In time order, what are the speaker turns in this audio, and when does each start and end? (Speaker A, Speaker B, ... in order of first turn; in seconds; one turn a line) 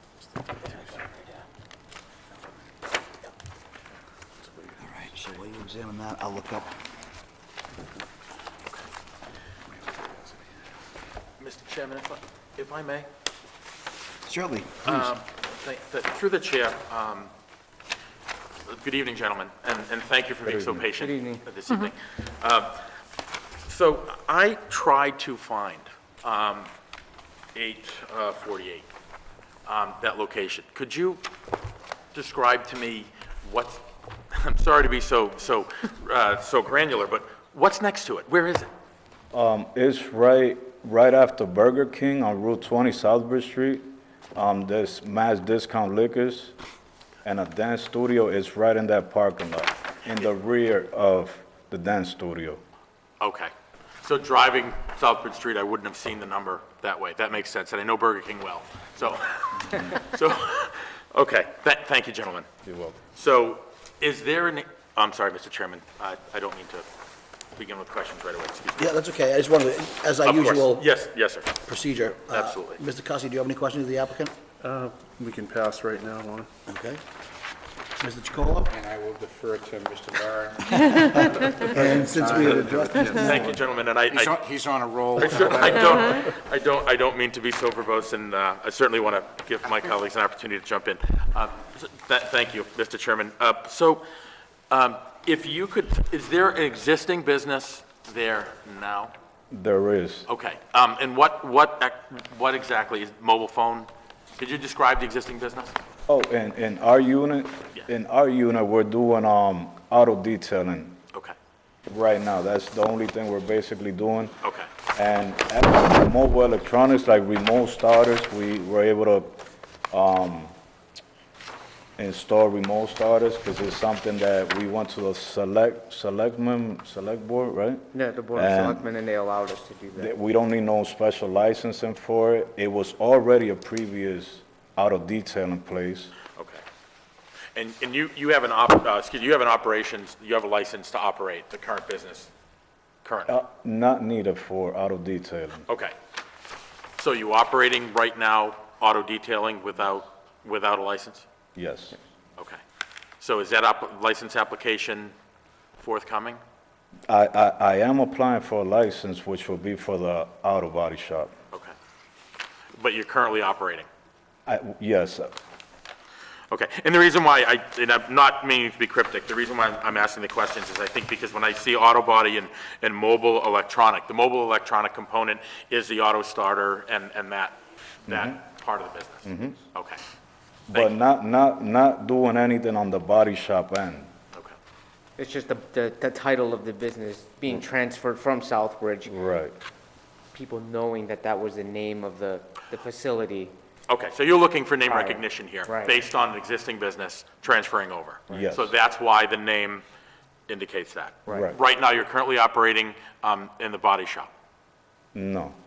Speaker A: 0.6-1.0
Speaker B: 4.8-6.7
Speaker A: 11.4-13.1
Speaker B: 14.2-15.1
Speaker A: 14.8-17.3
Speaker A: 18.7-22.9
Speaker C: 20.4-20.9
Speaker D: 20.9-21.4
Speaker A: 23.7-26.7
Speaker A: 27.6-28.9
Speaker A: 29.7-31.2
Speaker A: 32.1-38.7
Speaker C: 39.3-46.6
Speaker C: 47.2-52.6
Speaker A: 53.2-53.5
Speaker A: 54.0-62.5
Speaker C: 62.6-63.0
Speaker A: 63.1-66.9
Speaker A: 67.6-69.0
Speaker B: 68.8-70.9
Speaker A: 70.2-71.6
Speaker B: 71.7-74.3
Speaker A: 72.3-72.8
Speaker E: 74.6-76.5
Speaker B: 76.7-77.0
Speaker B: 78.0-78.7
Speaker F: 78.7-83.4
Speaker B: 81.6-83.5
Speaker E: 82.0-83.0
Speaker A: 83.1-84.3
Speaker F: 84.1-86.2
Speaker A: 85.2-94.0
Speaker A: 94.7-99.1
Speaker C: 99.5-100.3
Speaker A: 100.3-105.8
Speaker C: 106.1-111.0
Speaker C: 111.9-114.4
Speaker A: 114.4-114.7
Speaker C: 114.9-119.4
Speaker C: 119.9-120.5
Speaker C: 122.0-128.9
Speaker D: 127.9-130.1
Speaker C: 130.0-136.1
Speaker A: 136.4-136.6
Speaker A: 137.6-142.3
Speaker A: 143.0-143.4
Speaker C: 143.3-145.7
Speaker A: 145.7-145.9
Speaker A: 147.0-151.3
Speaker C: 151.6-152.0
Speaker A: 153.2-155.1
Speaker A: 155.8-156.4
Speaker C: 157.1-161.3
Speaker A: 162.8-163.9
Speaker C: 164.5-165.3
Speaker A: 166.5-180.0
Speaker C: 178.1-178.4
Speaker C: 179.2-179.6
Speaker C: 180.7-184.1
Speaker D: 185.2-189.1
Speaker C: 189.1-189.5
Speaker D: 190.3-193.5
Speaker A: 193.9-199.8
Speaker D: 194.9-196.0
Speaker C: 198.3-198.7
Speaker A: 200.5-204.3
Speaker C: 201.3-201.6
Speaker C: 205.1-205.6